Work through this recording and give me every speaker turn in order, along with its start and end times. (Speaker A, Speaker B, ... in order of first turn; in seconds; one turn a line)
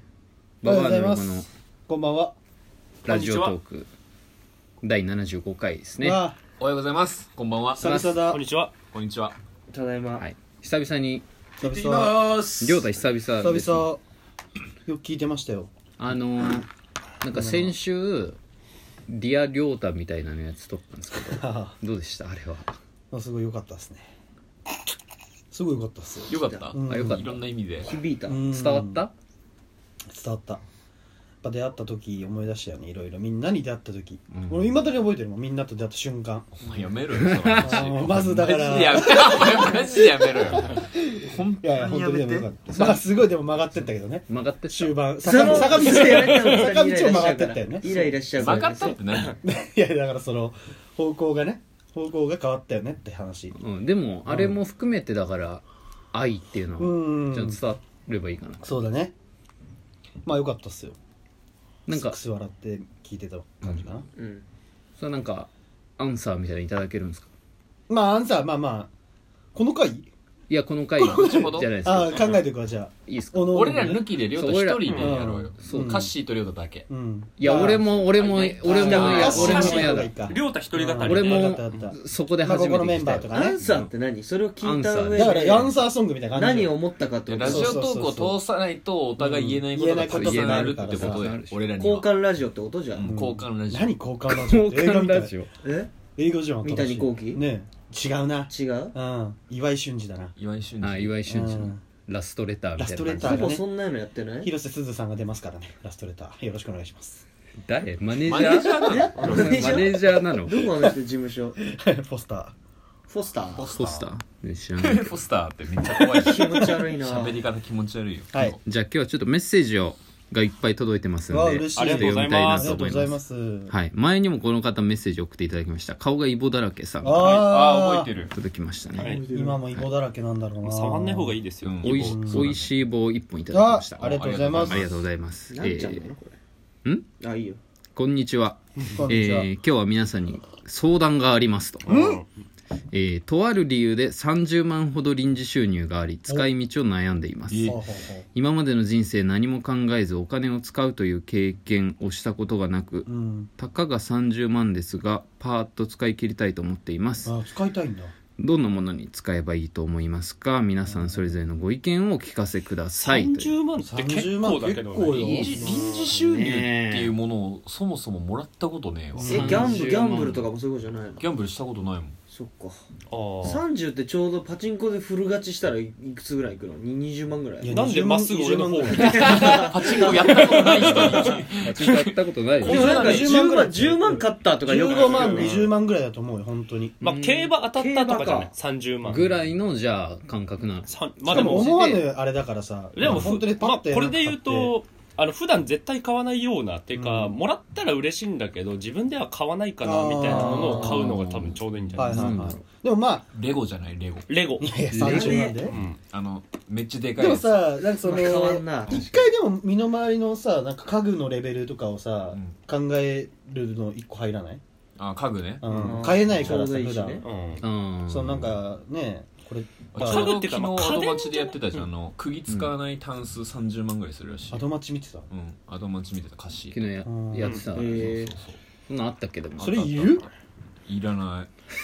Speaker A: 0.6-1.5
Speaker B: 0.6-2.4
Speaker C: 3.0-3.6
Speaker A: 3.0-3.9
Speaker A: 4.8-6.2
Speaker B: 6.0-6.4
Speaker D: 6.6-7.9
Speaker B: 7.8-8.4
Speaker A: 7.8-8.2
Speaker C: 8.3-8.7
Speaker D: 8.9-9.3
Speaker E: 9.7-10.2
Speaker A: 10.2-11.2
Speaker B: 11.6-12.2
Speaker D: 11.6-12.9
Speaker A: 12.6-13.9
Speaker B: 13.4-14.0
Speaker B: 14.9-15.7
Speaker A: 16.0-16.7
Speaker A: 17.2-18.4
Speaker B: 17.3-17.8
Speaker A: 19.1-22.7
Speaker B: 21.1-21.8
Speaker B: 23.1-24.1
Speaker B: 25.5-27.3
Speaker D: 26.3-27.9
Speaker A: 26.9-27.4
Speaker E: 27.8-28.4
Speaker B: 28.3-29.0
Speaker A: 28.5-29.1
Speaker B: 30.1-30.6
Speaker B: 31.4-36.5
Speaker A: 34.3-34.8
Speaker D: 36.6-43.0
Speaker A: 37.2-37.8
Speaker B: 37.6-48.1
Speaker A: 44.3-45.7
Speaker E: 45.2-49.4
Speaker C: 45.9-46.7
Speaker D: 48.3-49.4
Speaker B: 49.4-53.6
Speaker A: 53.6-58.8
Speaker B: 54.3-54.6
Speaker B: 56.8-57.6
Speaker B: 58.6-59.1
Speaker B: 60.2-61.0
Speaker A: 61.9-62.2
Speaker B: 61.9-64.1
Speaker E: 64.2-64.5
Speaker A: 65.0-67.3
Speaker B: 67.9-68.9
Speaker B: 69.5-70.1
Speaker A: 70.5-72.3
Speaker B: 71.0-74.1
Speaker D: 71.0-71.7
Speaker C: 72.1-72.4
Speaker A: 73.1-74.9
Speaker D: 73.5-76.9
Speaker C: 74.9-75.2
Speaker B: 74.9-76.1
Speaker A: 75.6-75.9
Speaker B: 76.9-77.9
Speaker A: 77.4-80.1
Speaker D: 77.9-80.0
Speaker B: 78.6-83.6
Speaker E: 78.8-79.8
Speaker C: 79.6-81.9
Speaker A: 81.1-83.9
Speaker E: 83.3-87.8
Speaker A: 84.6-85.3
Speaker B: 85.1-86.8
Speaker D: 87.3-92.2
Speaker B: 87.4-88.4
Speaker B: 89.2-91.3
Speaker A: 90.0-91.6
Speaker E: 91.8-93.1
Speaker D: 92.9-93.9
Speaker B: 93.0-95.3
Speaker A: 94.3-95.5
Speaker E: 95.6-95.9
Speaker B: 96.2-100.3
Speaker E: 96.6-97.4
Speaker E: 98.5-98.9
Speaker D: 100.4-101.2
Speaker A: 100.8-103.5
Speaker B: 101.3-101.8
Speaker B: 102.8-103.7
Speaker E: 103.2-104.5
Speaker B: 104.4-107.2
Speaker A: 107.6-110.6
Speaker D: 108.2-109.8
Speaker B: 108.9-109.8
Speaker E: 108.9-111.6
Speaker B: 110.6-110.9
Speaker B: 111.6-112.5
Speaker E: 113.1-113.7
Speaker D: 113.6-113.9
Speaker A: 113.7-115.2
Speaker D: 114.8-118.6
Speaker E: 116.1-117.5
Speaker A: 118.7-127.5
Speaker B: 121.3-123.8
Speaker C: 121.8-122.8
Speaker B: 127.0-128.1
Speaker D: 127.2-128.3
Speaker A: 128.3-129.1
Speaker E: 129.0-129.6
Speaker B: 129.2-132.5
Speaker C: 130.6-131.9
Speaker D: 131.6-132.7
Speaker A: 131.8-136.1
Speaker B: 133.5-134.9
Speaker D: 134.0-135.0
Speaker E: 135.5-136.4
Speaker E: 137.2-137.6
Speaker A: 138.0-141.9
Speaker B: 138.8-139.5
Speaker C: 141.9-142.2
Speaker B: 141.9-142.2
Speaker A: 142.9-147.8
Speaker D: 147.5-147.8
Speaker B: 147.6-148.2
Speaker A: 148.3-157.3
Speaker B: 153.1-153.5
Speaker B: 157.2-158.1
Speaker A: 158.4-163.6
Speaker B: 160.9-161.2
Speaker C: 163.0-165.5
Speaker B: 163.8-165.7
Speaker A: 165.2-165.7
Speaker D: 165.2-169.5
Speaker E: 165.5-166.3
Speaker A: 166.3-167.1
Speaker B: 169.1-169.9
Speaker A: 169.3-170.4
Speaker E: 169.3-171.3
Speaker D: 171.2-172.2
Speaker E: 172.3-172.8
Speaker C: 173.1-173.7
Speaker E: 173.4-177.8
Speaker B: 177.6-179.5
Speaker C: 177.7-181.4
Speaker E: 178.9-181.2
Speaker D: 179.5-183.3
Speaker A: 180.7-183.0
Speaker B: 182.6-187.0
Speaker E: 182.6-185.6
Speaker C: 184.8-185.7
Speaker C: 187.0-189.5
Speaker A: 187.0-187.5
Speaker E: 187.6-188.5
Speaker A: 189.1-190.9
Speaker C: 190.9-192.1
Speaker B: 191.2-194.8
Speaker C: 192.9-202.3
Speaker B: 196.9-197.3
Speaker B: 199.8-201.1
Speaker E: 200.2-201.0
Speaker B: 202.0-203.3
Speaker A: 202.0-202.6
Speaker D: 203.3-204.3
Speaker C: 204.3-204.7
Speaker B: 204.6-205.8
Speaker A: 204.9-205.5
Speaker E: 205.0-205.7
Speaker C: 205.6-206.0
Speaker D: 206.1-207.5
Speaker B: 207.2-214.6
Speaker E: 208.0-209.3
Speaker D: 215.0-215.7
Speaker B: 215.6-217.2
Speaker C: 215.7-216.0
Speaker E: 215.8-217.2
Speaker D: 216.3-216.6
Speaker C: 217.2-217.6
Speaker A: 217.6-218.6
Speaker B: 218.1-220.3
Speaker D: 219.9-224.7
Speaker C: 220.0-221.8
Speaker B: 224.5-225.3
Speaker D: 225.3-226.8
Speaker A: 226.7-228.2
Speaker B: 227.1-227.6
Speaker C: 227.4-227.7
Speaker E: 227.7-228.3
Speaker D: 227.9-228.6
Speaker A: 228.9-229.9
Speaker B: 229.6-230.3
Speaker D: 229.6-230.3
Speaker D: 230.9-231.5